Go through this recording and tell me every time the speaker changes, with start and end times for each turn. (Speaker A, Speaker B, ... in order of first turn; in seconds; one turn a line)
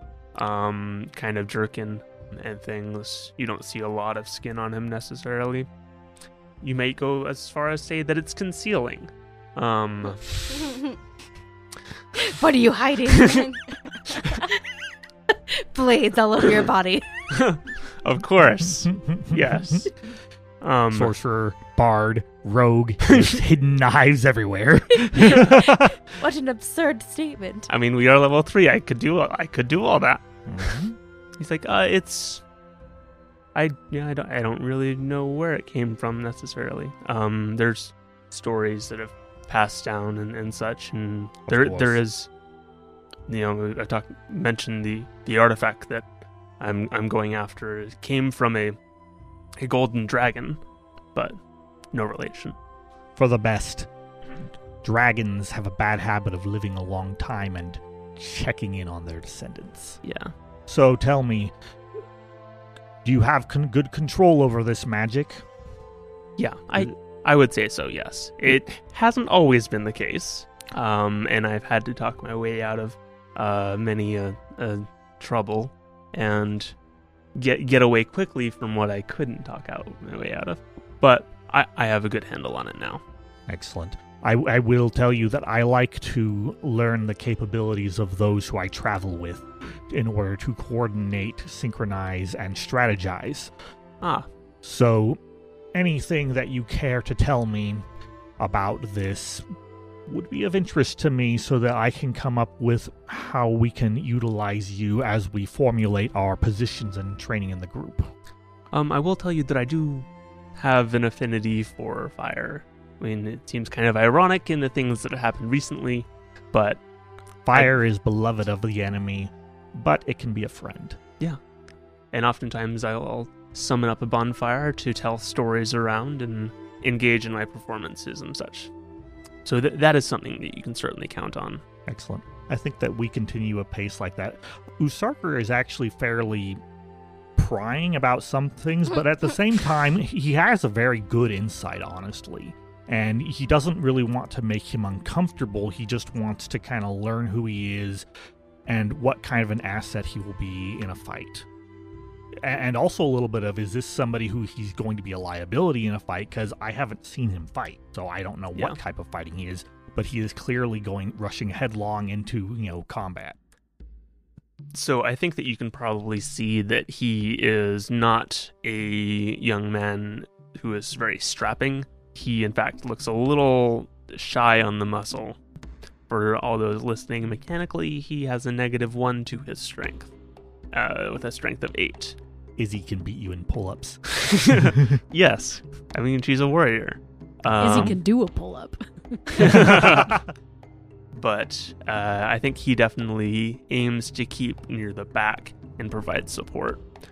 Speaker A: 0.3-5.7
Speaker A: 6.6-10.7
Speaker B: 12.2-13.5
Speaker A: 13.1-13.5
Speaker B: 15.5-17.1
Speaker A: 17.3-19.9
Speaker C: 18.8-19.9
Speaker A: 20.6-21.1
Speaker C: 20.9-26.0
Speaker A: 23.1-23.4
Speaker B: 25.2-27.7
Speaker A: 27.7-30.7
Speaker C: 30.5-31.0
Speaker A: 31.4-32.4
Speaker A: 33.5-42.3
Speaker C: 41.5-42.0
Speaker A: 43.3-46.1
Speaker A: 46.6-48.8
Speaker A: 49.6-50.6
Speaker A: 51.9-52.6
Speaker C: 53.2-53.9
Speaker C: 54.8-60.0
Speaker A: 60.0-60.3
Speaker C: 60.7-61.5
Speaker C: 63.0-65.5
Speaker A: 66.4-76.8
Speaker A: 77.3-83.0
Speaker C: 83.5-93.5
Speaker A: 94.0-94.3
Speaker C: 94.6-95.2
Speaker C: 95.7-97.8
Speaker C: 98.4-99.5
Speaker C: 100.1-108.1
Speaker A: 108.7-116.8
Speaker C: 117.5-121.0
Speaker A: 122.1-128.7
Speaker A: 129.4-131.6
Speaker C: 131.9-136.6
Speaker C: 137.4-148.1
Speaker C: 148.7-151.5
Speaker C: 152.4-163.4
Speaker A: 164.7-175.4
Speaker A: 176.1-180.1
Speaker A: 180.7-182.2
Speaker C: 182.6-185.0
Speaker A: 184.2-188.0
Speaker D: 187.6-189.6
Speaker C: 187.7-188.0
Speaker A: 189.3-190.2
Speaker C: 189.4-190.3
Speaker A: 191.2-196.8